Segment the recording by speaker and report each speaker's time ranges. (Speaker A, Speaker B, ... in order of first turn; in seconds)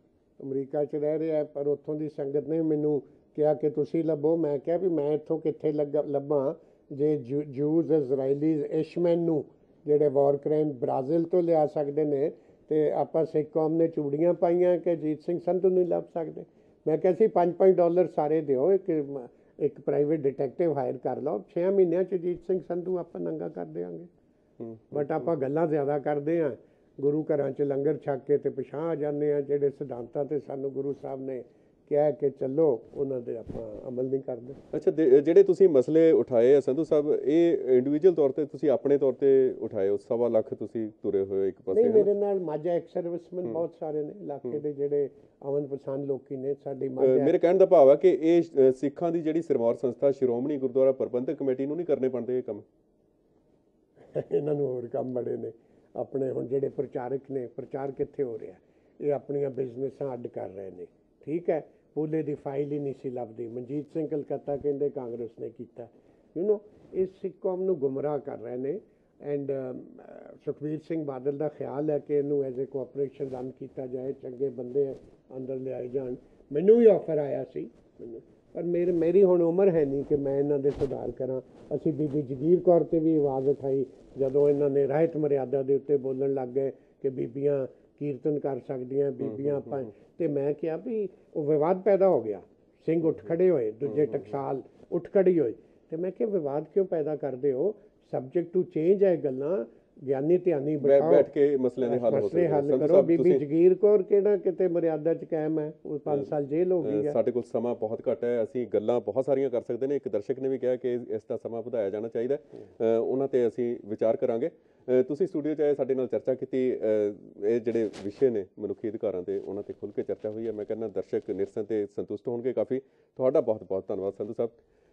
Speaker A: 0.4-24.1, 24.9-34.6, 41.7-47.3, 54.1-101.3, 101.8-107.2
Speaker B: 24.6-25.2, 34.7-42.1, 47.0-52.6, 89.2-89.8, 100.8-103.4, 106.8-124.6